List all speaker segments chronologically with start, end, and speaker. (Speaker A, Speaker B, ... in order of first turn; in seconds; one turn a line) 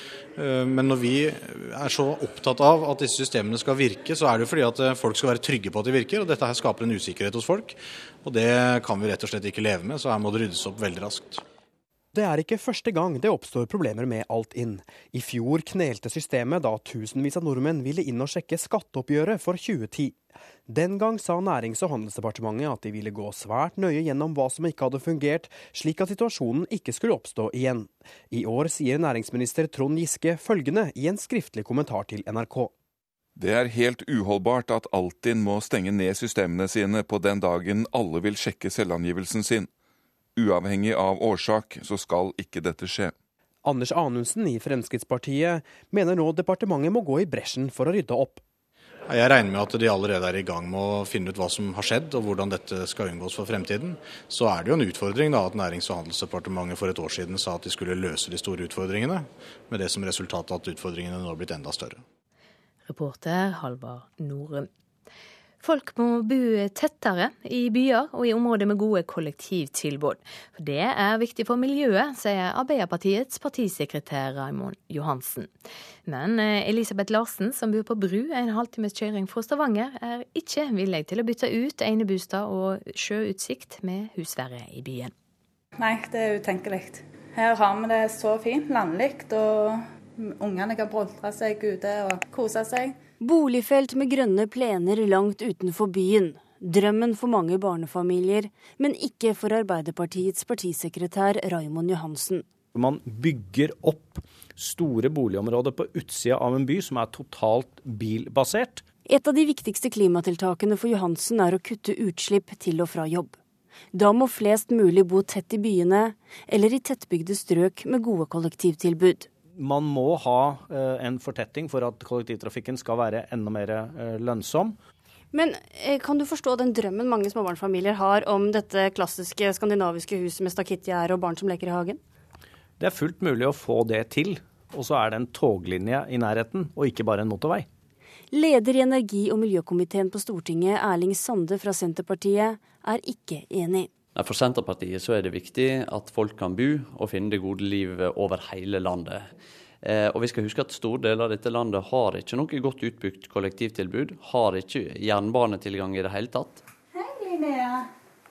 Speaker A: 0.4-11.4
Speaker B: 12.1-32.7
Speaker C: 33.4-39.7
Speaker C: 40.4-43.1
Speaker B: 43.6-48.4
Speaker A: 49.1-62.0
Speaker D: 62.9-64.7
Speaker D: 65.6-75.5
Speaker D: 76.1-85.1
Speaker E: 85.8-93.0
Speaker F: 93.2-102.5
Speaker G: 102.7-108.8
Speaker F: 109.1-113.3
Speaker F: 113.9-119.3
Speaker G: 119.5-124.8
Speaker F: 125.3-132.0
Speaker G: 132.8-137.7
Speaker F: 138.3-143.9
Speaker H: 144.2-149.3
Speaker H: 149.8-156.6
Speaker E: 157.2-157.8